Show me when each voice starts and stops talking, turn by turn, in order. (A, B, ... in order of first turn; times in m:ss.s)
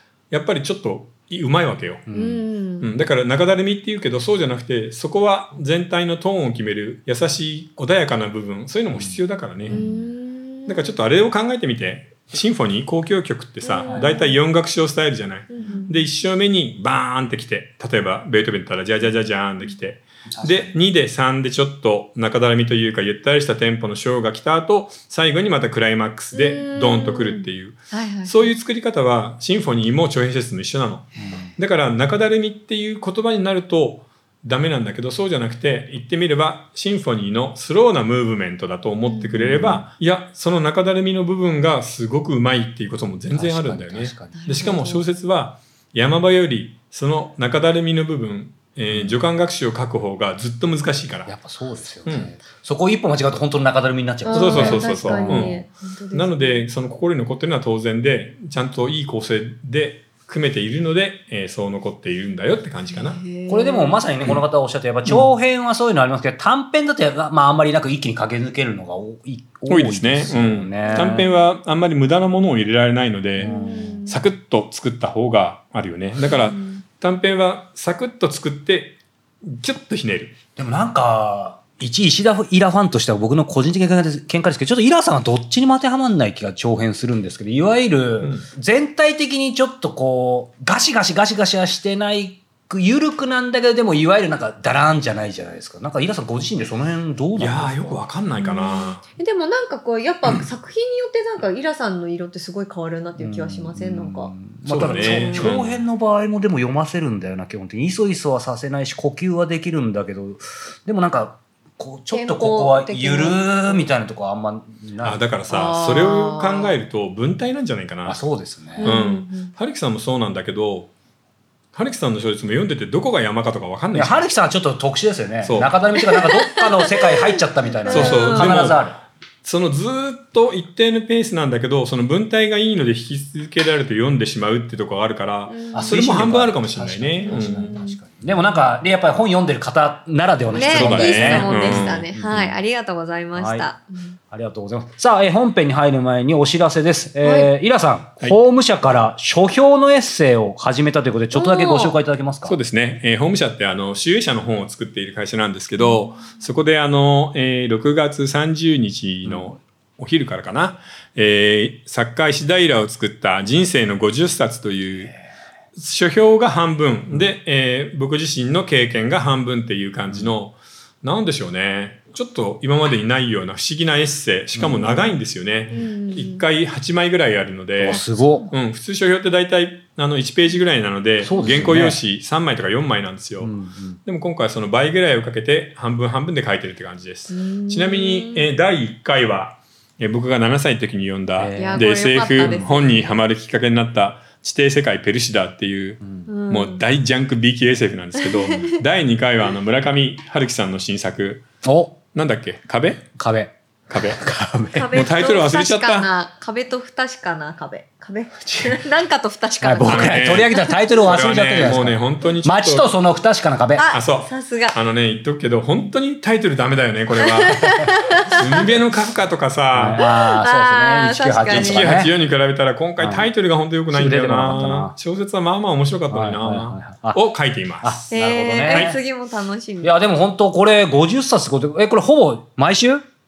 0:00.3-0:02.0 A
0:02.1-0:02.4 B
0:02.1-0:02.9 C
0:02.8-0:09.8 A
0:08.9-0:10.0 B
0:09.7-0:10.9 C
0:10.7-0:51.3 A
0:13.6-0:14.4 C
0:13.9-0:14.1 B
0:15.5-0:16.1 C
0:20.3-0:20.8 B
0:26.3-0:28.5 C
0:31.2-0:31.5 B
0:39.0-0:39.8 C
0:39.5-0:39.9 B
0:43.3-0:44.4 B
0:44.4-0:45.0 C
0:48.9-0:49.3 B
0:51.3-0:55.6 B
0:52.1-0:52.3 A
0:54.2-0:56.6 C
0:54.3-0:55.6 A
0:56.1-1:03.2 A
1:02.9-1:04.1 C
1:03.5-1:11.3 B
1:09.7-1:20.4 A
1:10.8-1:11.4 C
1:13.4-1:14.0 B
1:13.4-1:14.2 C
1:16.3-1:16.8 C
1:20.6-1:38.0 B
1:28.2-1:28.5 A
1:37.4-1:39.0 A
1:38.4-1:44.3 C
1:43.2-1:55.3 B
1:44.7-1:45.8 A
1:44.9-1:45.6 C
1:52.1-1:53.9 C
1:55.0-1:58.2 A
1:55.5-1:56.8 C
1:58.0-1:58.9 B
1:58.8-1:59.5 C
1:58.8-2:00.9 A
2:01.7-2:04.3 A
2:03.9-2:09.0 B
2:05.4-2:05.8 A
2:06.0-2:08.7 C
2:07.9-2:08.9 A
2:09.4-2:17.7 A
2:15.5-2:16.0 C
2:15.7-2:22.6 B
2:17.2-2:18.0 C
2:20.5-2:24.2 C
2:20.6-2:22.1 A
2:23.4-2:23.7 B
2:24.3-2:32.6 B
2:27.2-2:27.5 C
2:31.3-2:32.0 C
2:32.5-2:45.1 A
2:35.8-2:36.1 C
2:39.2-2:39.6 B
2:45.8-3:03.5 A
2:47.1-2:47.4 B
2:50.1-2:50.3 B
2:54.6-2:55.1 B
2:55.7-2:56.4 C
2:57.8-2:58.5 B
2:57.9-2:58.5 C
3:01.2-3:02.0 B
3:03.4-3:04.0 B
3:04.1-3:21.4 A
3:07.3-3:08.5 C
3:11.4-3:11.9 B
3:11.6-3:13.0 C
3:12.4-3:12.7 B
3:16.0-3:16.3 B
3:16.3-3:16.8 C
3:18.2-3:18.8 C
3:21.6-3:22.0 B
3:22.1-3:23.0 A
3:23.2-3:24.9 B
3:23.9-3:24.2 A
3:24.7-3:30.6 C
3:24.9-3:26.1 A
3:28.5-3:28.8 B
3:29.6-3:33.9 B
3:29.8-3:32.9 A
3:33.8-3:34.8 C
3:33.9-3:40.0 A
3:37.2-3:38.4 C
3:39.7-3:42.1 B
3:40.0-3:42.0 C
3:41.5-3:48.1 A
3:43.0-3:43.3 B
3:43.9-3:45.0 B
3:46.1-3:47.2 B
3:47.8-3:49.0 B
3:48.1-3:50.0 C
3:48.7-3:49.0 A
3:49.8-3:53.0 B